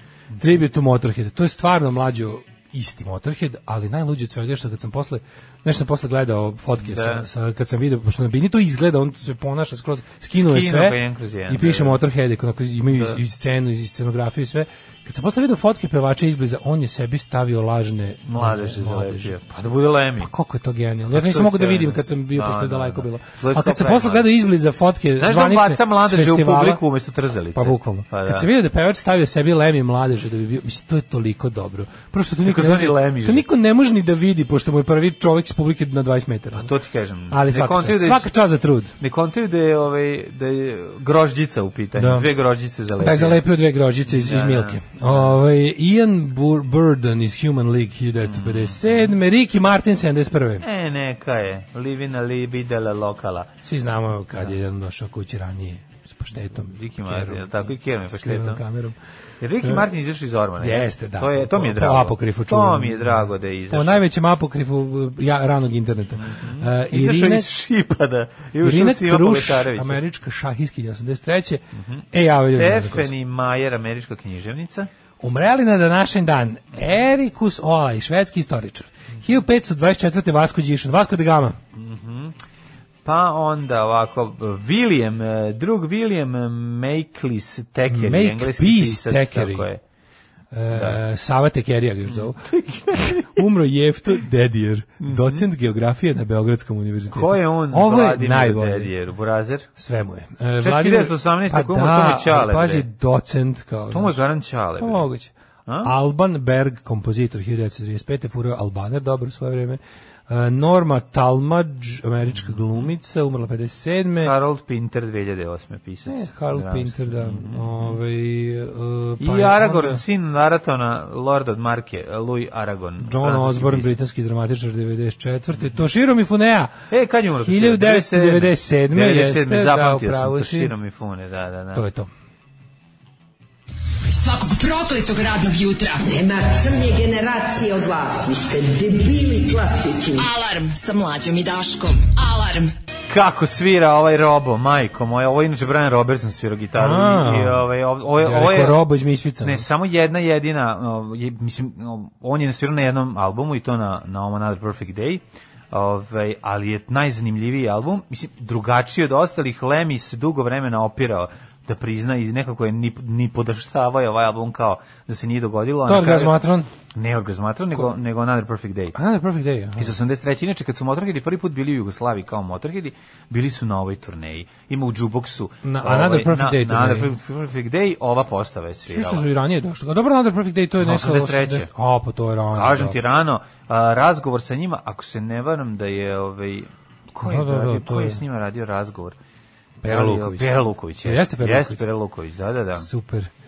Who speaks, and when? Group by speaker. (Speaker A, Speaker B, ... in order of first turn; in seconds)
Speaker A: 0.3-0.6, 6.8-7.2, 10.3-12.0, 12.9-13.2, 18.2-20.3, 21.1-24.3, 25.2-28.5, 32.4-33.5, 36.5-38.3, 39.0-43.4, 44.1-45.4, 48.2-49.1, 50.6-53.5, 56.6-58.6, 59.4-64.0, 66.2-70.0, 71.7-74.9, 81.7-82.3, 83.0-89.8, 90.7-91.0, 92.1-93.4, 95.0-95.5, 97.1-99.7, 100.6-102.9, 103.9-105.1, 105.7-105.9, 112.3-112.9, 114.2-118.0, 119.2-123.9, 126.9-131.8, 143.1-148.8, 149.4-166.4, 166.9-168.9, 169.8-179.3, 180.8-181.7, 182.5-189.2, 189.8-192.9
Speaker B: 0.4-19.3, 20.2-26.8, 27.5-36.7, 37.3-38.9, 42.0-42.3, 43.0-50.6, 53.6-58.9, 60.6-67.5, 68.6-73.1, 75.2-81.6, 87.9-89.7, 90.5-98.9, 99.8-104.2, 104.8-105.3, 105.8-114.3, 116.1-120.0, 123.0-126.7, 127.4-130.7, 131.7-132.1, 146.8-147.7, 148.2-149.6, 165.8-166.7, 168.9-169.9, 175.6-177.1, 178.9-183.0, 187.2-188.2, 189.8-191.8, 192.8-193.3
Speaker C: 134.1-136.0, 140.2-142.7
Speaker D: 136.0-140.3